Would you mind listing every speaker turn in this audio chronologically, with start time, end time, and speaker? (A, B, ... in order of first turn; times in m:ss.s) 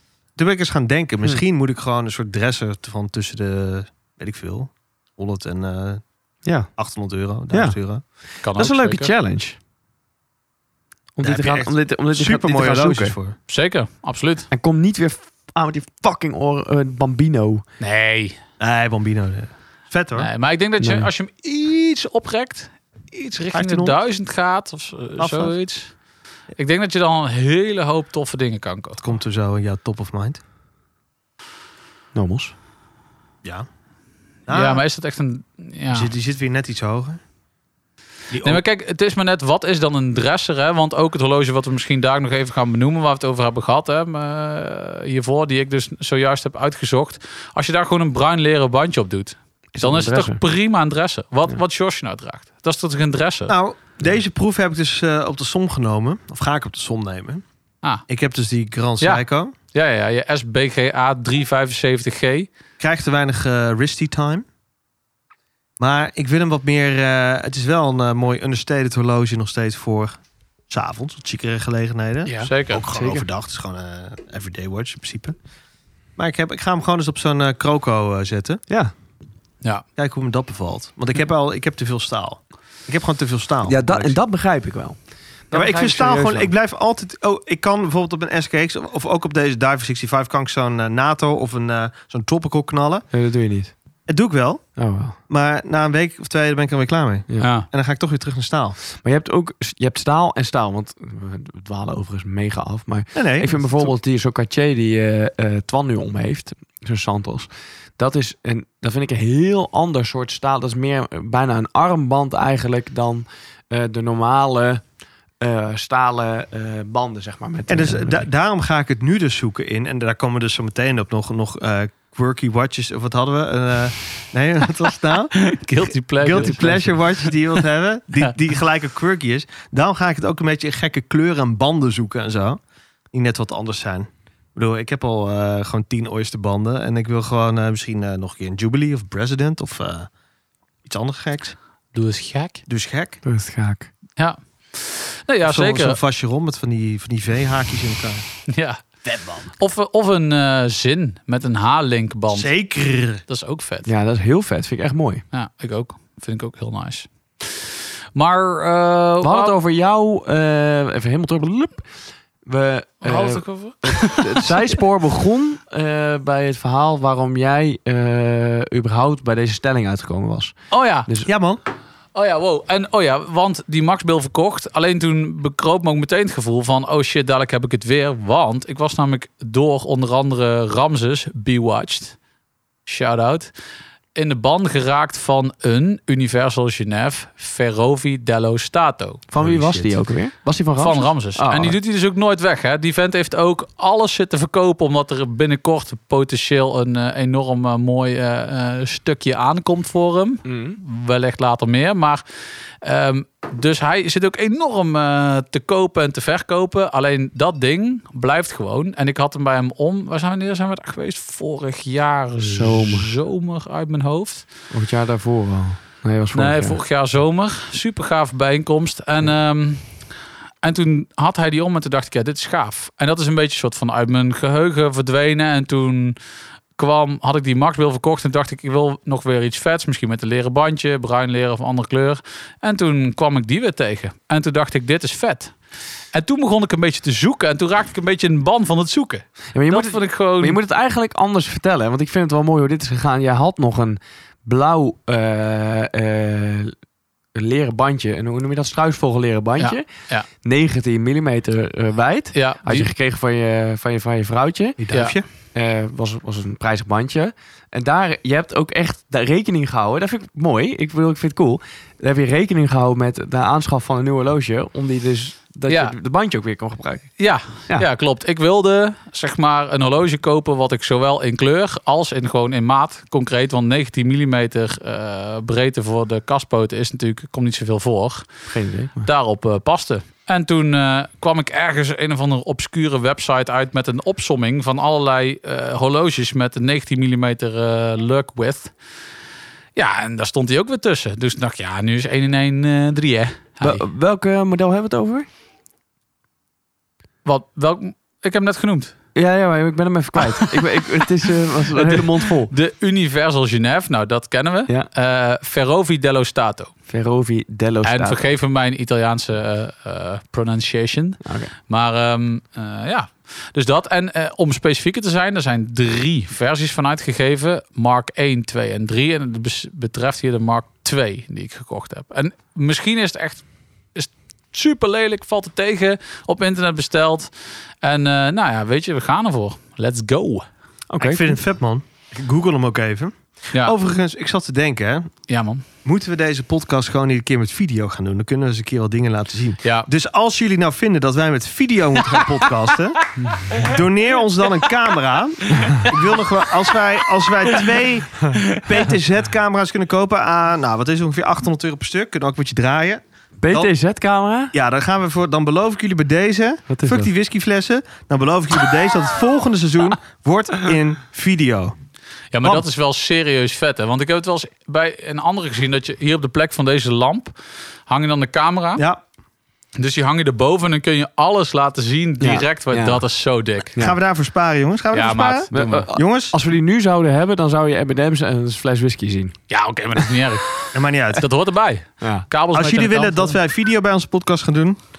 0:00.4-0:06.0 A
0:06.8-0:08.0 A
0:07.5-0:07.8 B
0:08.4-0:09.1 C
0:08.6-0:09.6 B
0:11.2-0:13.2 B
0:11.2-0:13.4 A
0:13.5-0:14.5 C
0:14.5-0:17.6 B
0:17.8-0:18.4 C
0:18.6-0:20.3 A
0:20.2-0:25.9 C
0:20.8-0:21.1 B
0:23.5-0:24.0 A
0:25.2-0:25.5 A
0:26.6-0:29.0 C
0:29.0-0:30.4 A
0:32.2-0:32.5 B
0:34.5-0:34.8 A
0:34.5-0:36.1 C
0:35.9-0:37.2 A
0:38.3-0:38.6 A
0:38.4-0:53.5 C
0:49.8-0:50.4 B
0:53.5-0:57.4 A
0:58.1-0:59.5 A
0:59.0-1:02.5 C
1:02.8-1:04.4 A
1:05.8-1:10.1 A
1:10.7-1:15.4 A
1:12.3-1:12.9 C
1:12.9-1:13.3 B
1:16.2-1:18.6 A
1:20.0-1:24.2 A
1:23.6-1:25.0 B
1:25.5-1:26.5 B
1:25.5-1:33.0 A
1:33.1-1:33.7 B
1:34.1-1:38.8 A
1:34.8-1:35.2 B
1:37.4-1:37.7 C
1:39.0-1:54.8 B
1:43.1-1:43.9 A
1:55.4-1:58.3 B
1:57.7-2:12.6 A
2:05.4-2:07.6 C
2:06.4-2:06.9 B
2:13.1-2:20.1 A
2:20.8-2:21.6 A
2:21.9-2:22.6 C
2:22.7-2:23.2 A
2:23.2-2:23.9 B
2:24.2-2:26.0 C
2:25.4-2:28.2 A
2:28.5-2:28.8 C
2:29.1-2:29.5 A
2:29.6-2:32.5 C
2:32.3-2:33.2 A
2:33.3-2:33.9 C
2:33.9-2:35.2 B
2:35.3-2:39.6 C
2:39.2-2:41.9 B
2:42.4-2:50.6 B
2:43.0-2:44.7 C
2:50.7-2:51.1 C
2:51.3-2:51.6 A
2:52.1-3:02.2 C
3:02.9-3:03.5 C
3:04.2-3:09.2 C
3:09.3-3:11.8 B
3:09.4-3:10.0 A
3:10.8-3:22.2 C
3:20.4-3:20.8 B
3:22.8-3:34.4 C
3:32.4-3:33.1 B
3:34.7-3:36.8 B
3:36.3-3:40.0 C
3:40.6-3:46.2 C
3:46.8-3:55.5 C
3:56.1-4:00.6 C
3:59.5-4:06.8 B
4:07.4-4:09.9 B
4:09.6-4:10.3 C
4:10.4-4:14.8 B
4:12.3-4:12.9 C
4:14.8-4:15.2 A
4:14.9-4:15.2 C
4:15.5-4:27.1 B
4:25.7-4:26.0 C
4:27.2-4:38.3 C
4:38.5-4:39.1 B
4:39.0-4:48.7 C
4:49.8-4:53.8 C
4:53.6-4:55.3 B
4:57.2-4:59.0 C
4:59.2-5:02.5 B
5:00.2-5:01.1 C
5:01.7-5:06.7 C
5:06.9-5:08.2 B
5:07.8-5:30.5 C
5:11.2-5:11.5 B
5:30.9-5:31.4 B
5:31.0-5:35.1 A
5:35.3-5:35.6 C
5:35.8-5:53.7 A
5:48.3-5:48.9 C
5:53.4-5:54.5 B
5:54.5-6:01.8 A
5:56.7-5:57.1 B
6:02.3-6:07.3 C
6:07.9-6:08.8 C
6:09.8-6:13.8 C
6:12.2-6:13.0 B
6:13.8-6:16.3 A
6:14.9-6:15.9 C
6:15.5-6:19.4 B
6:19.5-6:20.5 C
6:20.7-6:21.3 A
6:21.2-6:23.4 C
6:22.0-6:22.3 B
6:22.5-6:24.8 A